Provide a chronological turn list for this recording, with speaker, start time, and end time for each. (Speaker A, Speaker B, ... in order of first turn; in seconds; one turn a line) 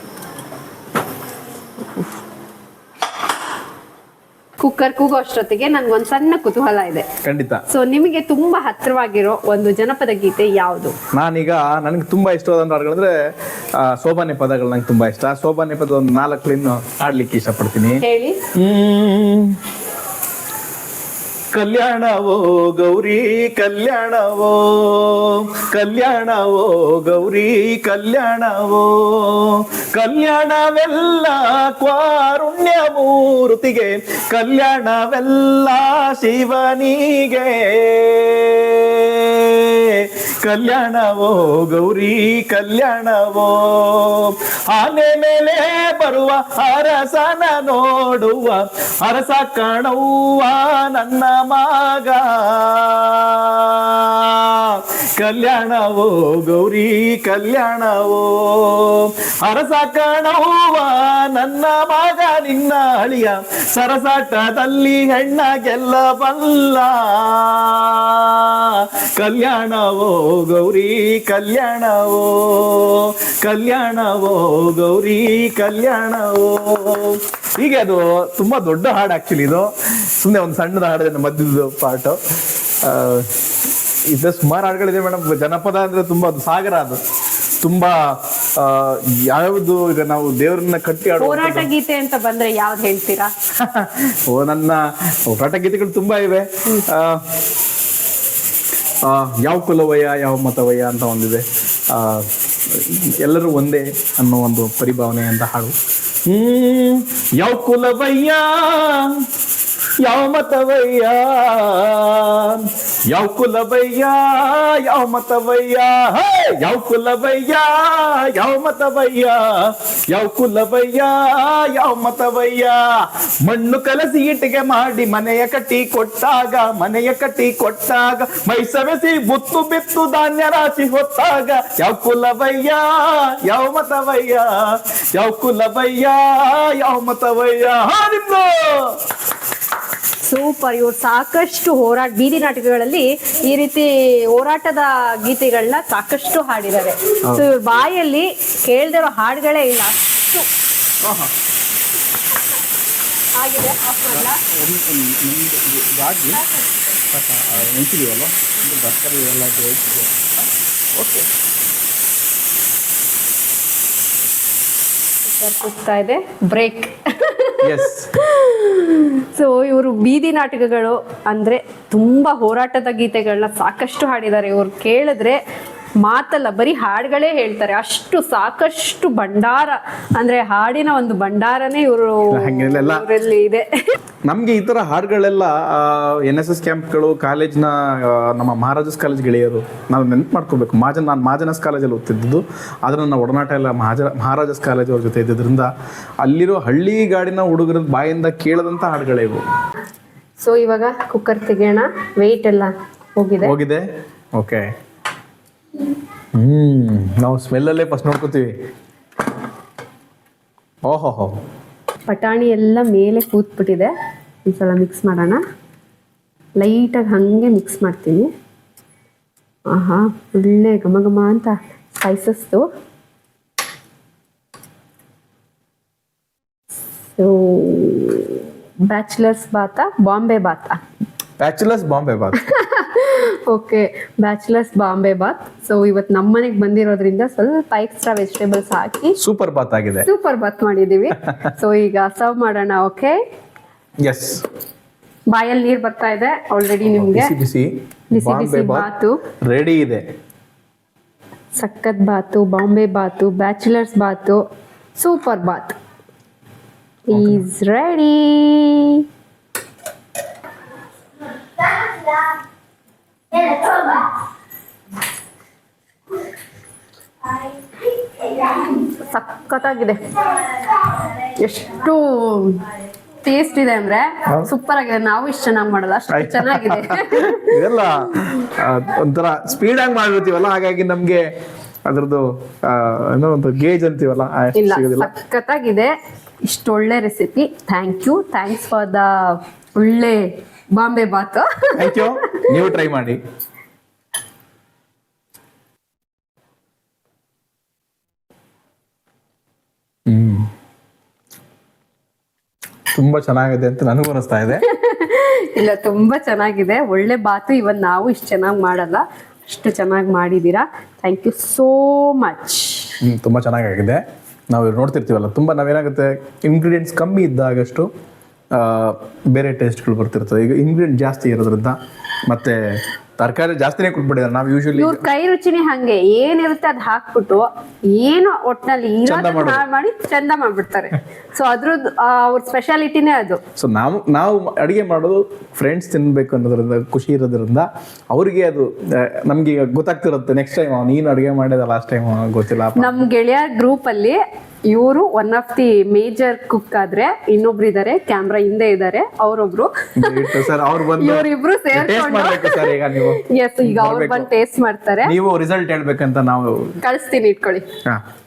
Speaker A: 4.6-7.0
Speaker B: 7.2-7.6
Speaker A: 7.7-11.0
Speaker B: 11.1-13.1
Speaker B: 13.8-18.0
Speaker A: 18.0-18.5
Speaker B: 18.5-19.5
Speaker B: 21.5-82.2
Speaker B: 82.8-83.3
Speaker B: 84.1-87.0
Speaker B: 87.6-91.7
Speaker A: 91.2-93.3
Speaker B: 93.5-97.2
Speaker B: 99.0-105.8
Speaker B: 106.3-109.2
Speaker B: 110.0-122.8
Speaker B: 123.4-138.9
Speaker A: 140.2-150.5
Speaker B: 151.0-151.3
Speaker A: 153.3-154.4
Speaker B: 154.1-156.4
Speaker B: 157.0-160.5
Speaker A: 161.0-161.2
Speaker A: 165.2-175.4
Speaker B: 167.6-168.1
Speaker A: 176.0-183.7
Speaker B: 182.3-183.1
Speaker B: 184.2-195.7
Speaker B: 196.2-199.4
Speaker A: 200.4-203.5
Speaker B: 203.4-203.8
Speaker B: 204.4-204.7
Speaker B: 206.3-208.5
Speaker B: 210.9-211.3
Speaker A: 212.1-213.9
Speaker A: 214.5-215.4
Speaker A: 216.6-218.3
Speaker A: 219.7-222.7
Speaker A: 227.2-230.8
Speaker B: 231.4-232.5
Speaker A: 232.3-239.2
Speaker B: 239.2-240.1
Speaker A: 240.0-243.2
Speaker B: 244.0-244.4
Speaker A: 245.3-247.3
Speaker B: 246.8-248.9
Speaker A: 248.1-249.2
Speaker B: 249.4-250.0
Speaker A: 251.6-254.4
Speaker A: 255.0-255.8
Speaker A: 257.1-259.1
Speaker B: 257.1-257.4
Speaker A: 261.6-262.2
Speaker A: 263.3-264.1
Speaker A: 267.9-277.7
Speaker B: 276.1-281.3
Speaker B: 281.9-285.1
Speaker A: 284.5-285.9
Speaker A: 286.5-292.6
Speaker B: 291.7-293.2
Speaker B: 300.1-300.5
Speaker B: 302.9-304.6
Speaker A: 304.5-313.0
Speaker B: 313.0-317.9
Speaker B: 318.5-322.6
Speaker B: 323.2-325.0
Speaker A: 324.7-333.4
Speaker B: 329.0-329.6
Speaker B: 333.6-343.0
Speaker A: 342.8-350.4
Speaker B: 350.0-354.3
Speaker A: 351.0-355.1
Speaker B: 355.0-356.8
Speaker A: 356.8-357.6